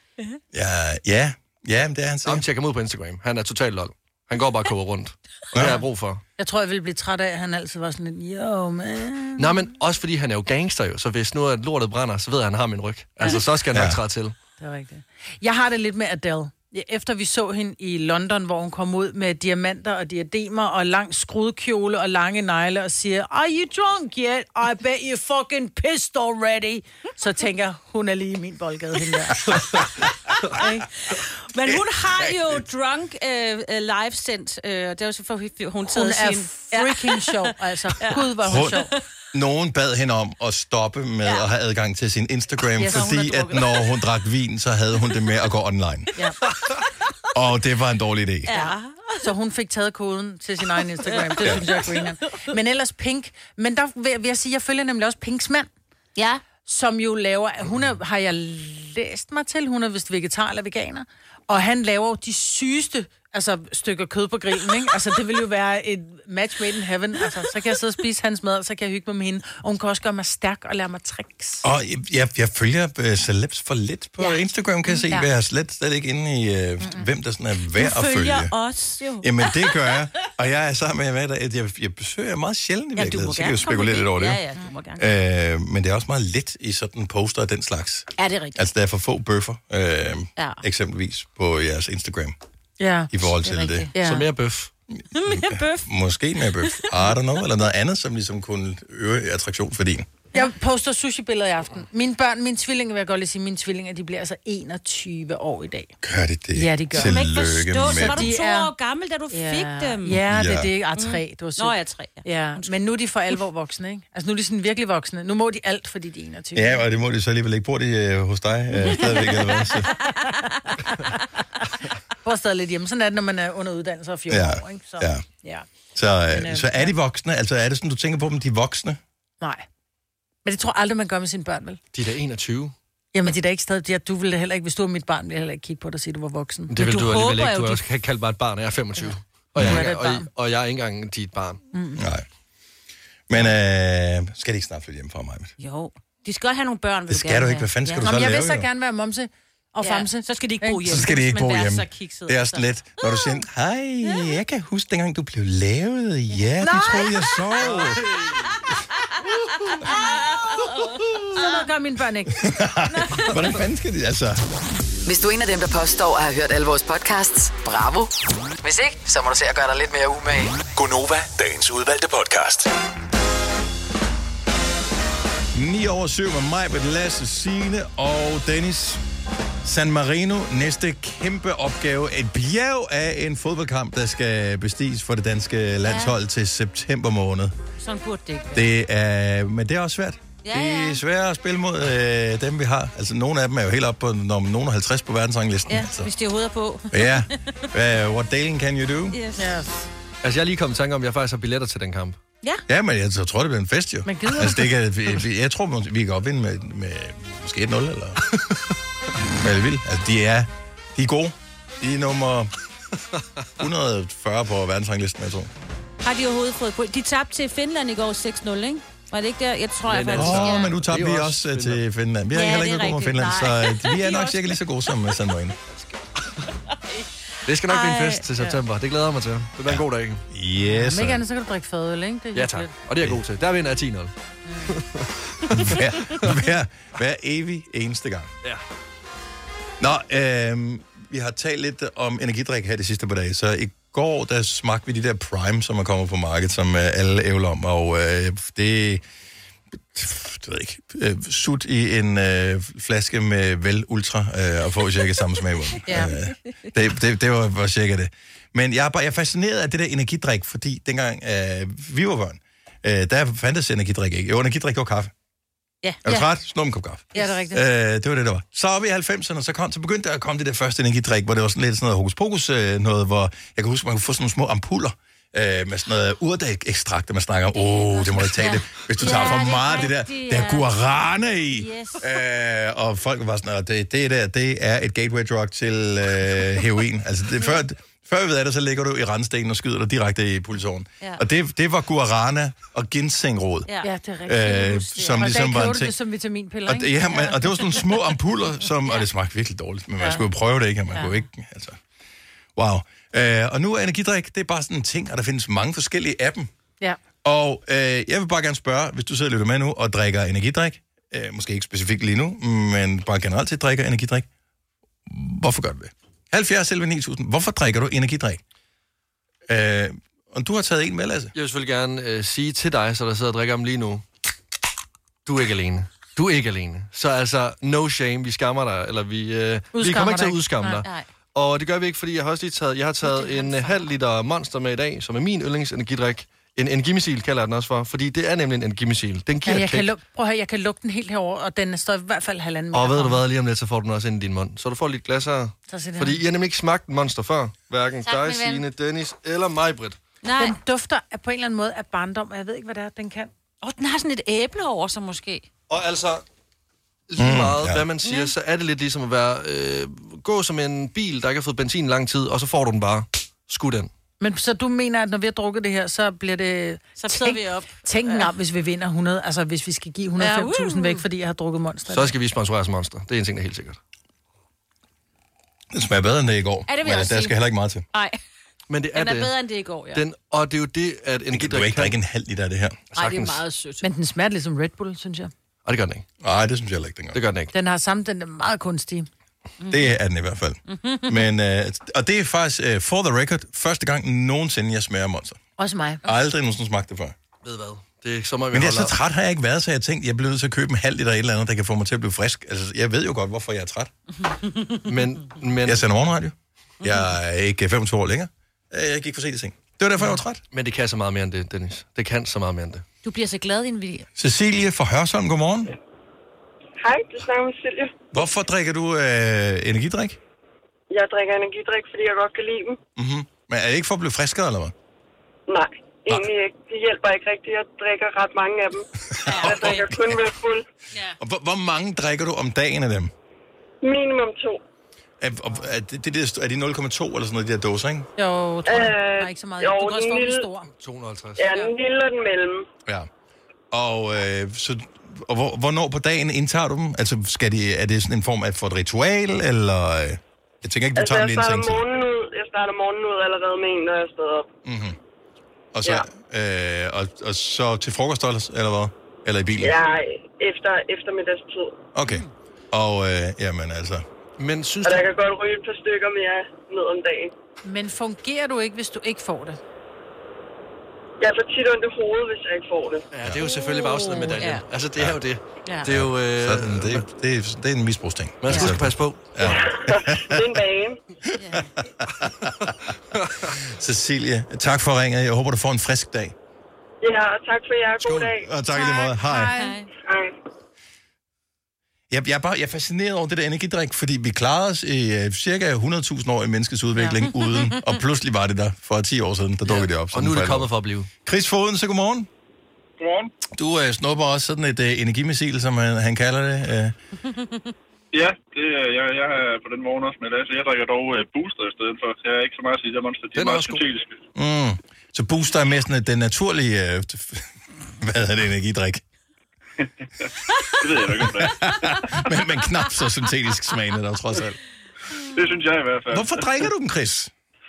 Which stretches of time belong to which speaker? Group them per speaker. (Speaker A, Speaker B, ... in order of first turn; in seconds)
Speaker A: 0.5-2.5, 5.5-5.8, 13.7-14.0, 38.4-38.8, 39.3-46.1, 47.3-48.5, 71.6-78.5, 79.2-84.4, 85.0-92.3, 93.1-93.9, 95.2-100.1, 106.0-108.3, 110.3-110.7, 116.5-119.9, 124.3-125.2, 125.9-129.0, 139.6-139.8, 142.0-142.2, 143.3-145.5, 147.1-148.7, 150.8-158.0, 159.2-159.7, 160.8-161.2, 162.4-164.4, 175.5-179.0, 179.6-187.5, 188.5-196.1, 196.9-199.2, 202.7-208.2, 209.2-212.5, 213.6-215.5, 220.1-225.6, 229.6-231.2, 235.5-238.3, 239.8-249.0, 249.9-265.1, 266.0-293.7, 294.2-295.9, 296.6-301.8, 302.6-306.5, 307.2-314.3, 315.1-318.4, 319.5-321.3, 357.2-357.8, 375.7-377.9, 381.3-382.8, 386.2-387.2, 389.7-395.4, 396.0-397.1, 398.5-403.9, 405.6-410.4, 414.2-415.7, 418.1-420.2, 422.9-424.7, 429.1-430.4, 431.2-433.1, 435.2-438.1, 443.7-451.8, 454.6-455.0, 455.7-459.7, 461.9-464.0, 475.9-480.4, 481.8-482.7, 483.6-486.3, 488.0-489.6, 492.1-500.7, 501.2-502.3, 503.5-506.9, 514.3-519.0, 521.1-524.6, 526.1-527.3
Speaker B: 2.2-6.2, 9.4-14.3, 94.0-94.7, 131.9-132.7, 136.7-141.6, 200.2-202.2, 219.8-221.8, 227.4-230.2, 232.3-234.1, 234.7-236.2, 321.3-324.0, 325.2-339.9, 342.7-350.0, 355.7-356.2, 357.1-363.9, 371.9-373.8, 378.7-379.3, 379.9-381.9, 382.9-383.4, 385.6-386.0, 387.1-387.5, 397.4-398.9, 404.9-405.8, 410.5-412.8, 440.8-441.4, 464.4-465.1, 473.1-477.0, 478.4-479.4, 483.2-483.5, 499.6-501.1, 513.3-513.8
Speaker C: 6.4-9.6, 14.6-30.8, 35.9-38.9, 42.8-43.6, 48.5-55.7, 56.6-71.7, 75.0-75.2, 92.8-93.1, 93.9-94.3, 100.3-105.9, 106.5-107.1, 107.8-108.7, 109.3-116.8, 118.9-119.7, 122.2-125.7, 126.3-126.9, 130.4-131.8, 133.1-136.7, 139.6-140.3, 141.7-142.0, 148.0-151.1, 156.6-157.3, 161.3-162.4, 199.4-199.9, 204.0-204.7, 230.7-232.7, 267.1-267.6, 293.8-297.6, 329.7-330.7, 339.4-343.2, 345.7-346.2, 350.4-353.3, 364.2-372.1, 383.8-385.3, 387.5-389.1, 395.6-396.0, 438.2-440.7, 467.6-469.6, 488.7-489.8
Speaker D: 30.6-39.0, 42.8-43.7, 48.5-49.2, 51.1-51.8, 56.1-56.4, 77.7-79.9, 83.0-85.0, 88.2-88.6, 90.4-90.6, 93.4-93.9, 95.1-95.9, 96.6-96.9, 106.9-110.2, 111.0-112.8, 119.0-121.2, 136.8-137.8, 145.6-148.1, 149.8-153.2, 159.0-161.6, 162.9-163.4, 185.8-186.1, 187.8-188.7, 190.4-191.0, 195.7-197.5, 199.1-199.5, 216.0-220.7, 222.3-224.6, 226.7-227.1, 227.7-228.6, 255.8-256.1, 265.8-266.3, 277.6-280.7, 281.5-282.1, 330.6-331.1, 333.0-333.9, 348.0-348.6, 350.2-350.6, 353.6-355.4, 358.0-358.3, 367.0-368.3, 370.2-371.0, 376.7-377.4, 377.9-378.2, 378.9-380.0, 382.9-383.9, 390.7-391.2, 404.4-404.8, 413.0-414.1, 429.2-429.7, 473.4-474.6, 481.4-481.7, 489.5-489.9, 497.0-497.8
Speaker E: 165.1-170.6
Speaker F: 170.7-172.7
Speaker G: 416.8-417.9, 420.9-422.8, 425.5-430.6, 433.8-434.6, 438.6-440.5, 441.4-442.6, 450.9-454.5, 459.6-461.8, 464.8-467.3, 471.2-473.0, 479.4-481.0, 487.0-488.5, 490.0-490.3
Speaker H: 503.0-503.3, 508.1-514.1, 519.8-521.7, 525.3-526.6